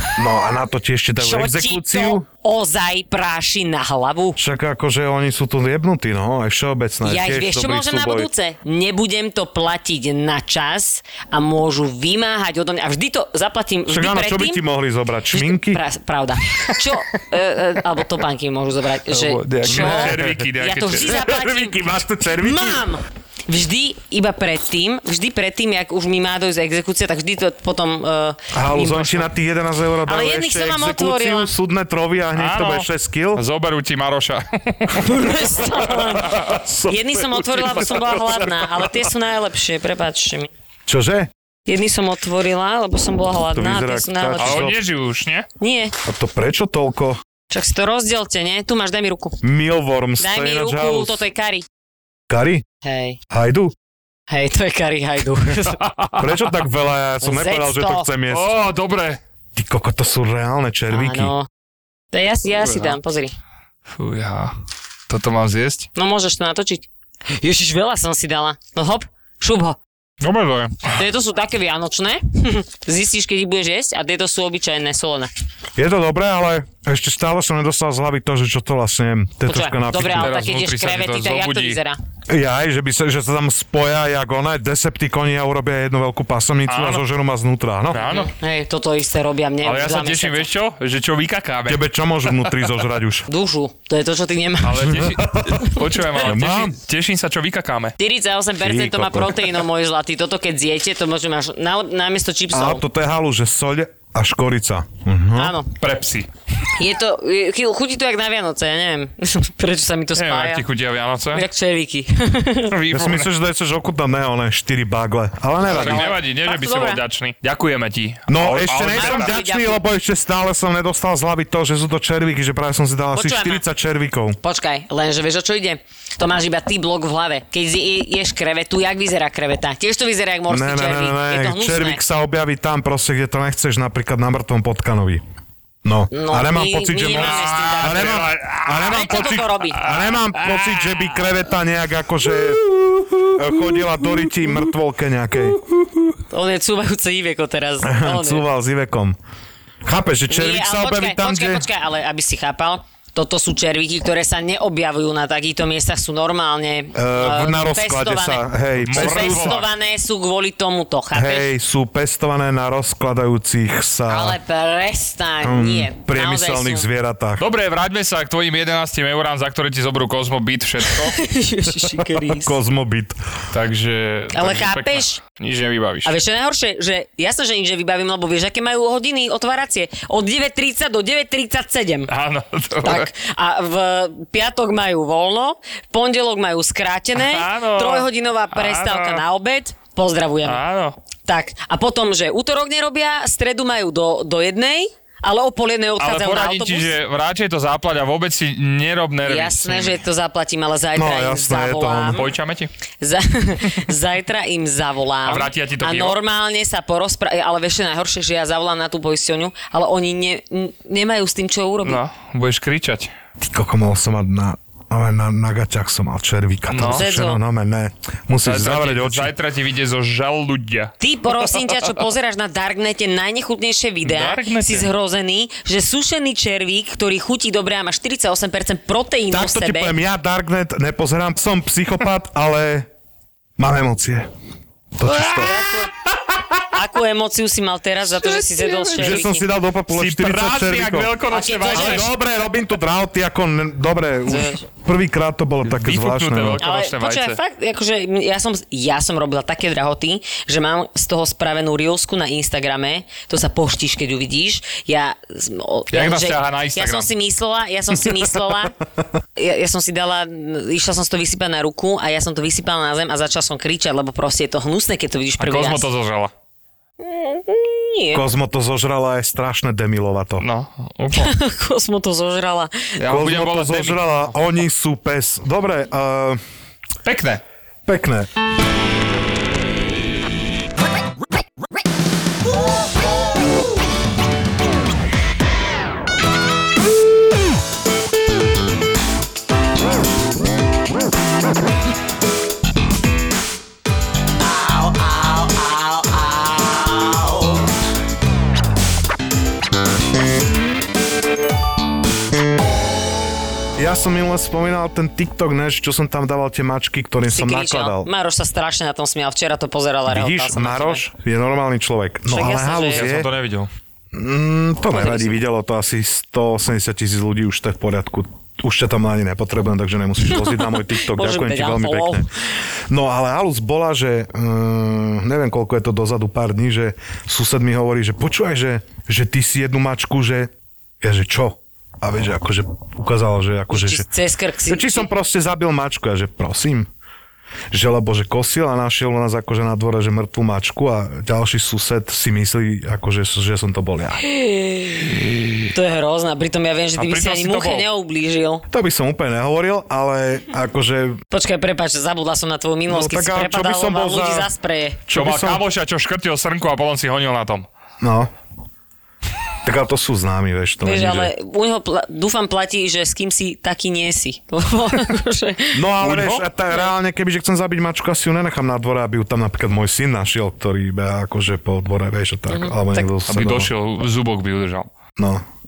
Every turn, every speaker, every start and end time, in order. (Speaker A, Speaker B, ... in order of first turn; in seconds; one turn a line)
Speaker A: 0.1-2.2
Speaker B: 1.2-4.4
Speaker A: 4.4-8.3
Speaker B: 7.0-14.6
Speaker A: 13.9-15.8
Speaker B: 15.3-21.7
Speaker C: 19.1-21.2
Speaker A: 19.6-22.8
Speaker B: 22.4-29.3
Speaker A: 28.5-33.4
Speaker B: 30.1-31.5
Speaker C: 32.4-35.1
Speaker B: 35.0-40.5
Speaker A: 36.3-38.2
Speaker A: 40.9-41.3
Speaker B: 41.7-44.6
Speaker A: 43.5-44.8
Speaker C: 44.4-45.5
Speaker B: 45.6-45.9
Speaker A: 46.0-47.2
Speaker B: 47.5-49.4
Speaker A: 49.4-51.2
Speaker B: 50.2-51.6
Speaker A: 52.3-52.6
Speaker B: 52.8-53.2
Speaker A: 53.3-53.7
Speaker B: 54.3-55.8
Speaker C: 55.8-56.4
Speaker A: 56.2-58.5
Speaker B: 57.2-58.1
Speaker C: 58.3-59.2
Speaker A: 59.5-61.3
Speaker B: 60.9-61.5
Speaker B: 62.1-63.3
Speaker C: 62.6-63.0
Speaker C: 63.9-64.5
Speaker C: 65.1-65.9
Speaker B: 66.0-66.9
Speaker B: 67.4-69.8
Speaker C: 70.2-70.9
Speaker B: 71.0-75.3
Speaker A: 75.8-80.3
Speaker B: 79.5-82.0
Speaker C: 80.0-81.8
Speaker A: 82.3-88.0
Speaker C: 86.7-87.0
Speaker C: 87.9-88.3
Speaker B: 88.1-90.5
Speaker C: 89.6-92.7
Speaker A: 91.7-93.2
Speaker B: 93.3-95.0
Speaker C: 94.6-97.9
Speaker A: 94.9-96.8
Speaker B: 98.0-102.8
Speaker A: 98.6-99.4
Speaker A: 102.5-105.5
Speaker B: 105.3-105.7
Speaker C: 105.8-106.3
Speaker B: 106.8-110.6
Speaker C: 110.2-111.4
Speaker B: 111.3-112.7
Speaker C: 112.7-113.3
Speaker A: 112.9-116.1
Speaker C: 115.7-119.3
Speaker B: 115.7-117.0
Speaker A: 118.3-124.4
Speaker B: 118.7-119.8
Speaker B: 123.1-123.6
Speaker B: 124.4-132.0
Speaker A: 130.5-135.2
Speaker A: 135.8-142.6
Speaker B: 136.1-139.8
Speaker C: 137.1-141.3
Speaker A: 143.2-145.6
Speaker B: 146.3-148.4
Speaker A: 147.8-149.2
Speaker A: 149.8-151.6
Speaker B: 150.3-161.5
Speaker A: 156.9-159.6
Speaker C: 158.8-159.7
Speaker A: 161.1-164.4
Speaker B: 164.1-166.9
Speaker A: 165.4-167.4
Speaker C: 167.4-171.2
Speaker B: 170.9-172.5
Speaker A: 171.8-173.2
Speaker C: 173.5-176.1
Speaker B: 174.3-175.2
Speaker B: 176.0-182.1
Speaker C: 182.1-183.1
Speaker B: 182.8-190.6
Speaker C: 187.2-189.2
Speaker C: 190.4-190.9
Speaker B: 191.2-196.9
Speaker C: 196.0-200.0
Speaker B: 199.2-202.2
Speaker A: 200.9-202.2
Speaker C: 202.1-202.7
Speaker B: 203.0-212.0
Speaker C: 205.2-206.2
Speaker C: 211.8-213.1
Speaker A: 213.4-219.3
Speaker C: 216.7-217.0
Speaker B: 216.9-217.4
Speaker C: 218.4-220.9
Speaker B: 221.0-229.9
Speaker C: 224.0-224.9
Speaker A: 229.3-232.9
Speaker A: 233.6-234.3
Speaker A: 235.0-235.5
Speaker B: 235.1-235.9
Speaker B: 236.7-239.4
Speaker C: 238.2-239.2
Speaker A: 238.9-241.1
Speaker C: 239.9-242.1
Speaker B: 241.3-242.1
Speaker A: 241.7-246.6
Speaker B: 244.3-244.6
Speaker C: 245.7-247.4
Speaker B: 246.6-258.7
Speaker C: 255.9-257.1
Speaker B: 259.4-265.9
Speaker C: 265.4-266.3
Speaker B: 267.0-268.2
Speaker A: 268.1-270.4
Speaker C: 270.4-271.3
Speaker B: 271.1-272.9
Speaker C: 273.0-274.3
Speaker A: 273.1-276.4
Speaker C: 277.0-277.4
Speaker A: 277.9-278.3
Speaker A: 303.8-308.1
Speaker B: 307.2-311.0
Speaker A: 310.1-313.3
Speaker B: 312.3-313.0
Speaker C: 312.9-313.7
Speaker A: 314.1-322.3
Speaker B: 314.9-315.4
Speaker B: 320.2-322.3
Speaker A: 322.9-334.1
Speaker B: 333.7-335.1
Speaker A: 334.7-336.9
Speaker A: 337.7-344.2
Speaker B: 344.2-345.1
Speaker B: 345.7-348.6
Speaker C: 347.0-347.9
Speaker A: 348.7-351.2
Speaker B: 351.3-355.0
Speaker A: 352.9-354.5
Speaker A: 355.1-355.6
Speaker C: 355.1-357.7
Speaker A: 358.0-358.3
Speaker A: 359.6-361.3
Speaker B: 360.8-365.8
Speaker A: 365.7-373.7
Speaker C: 366.0-366.4
Speaker B: 372.5-373.1
Speaker C: 373.3-374.9
Speaker A: 375.2-375.4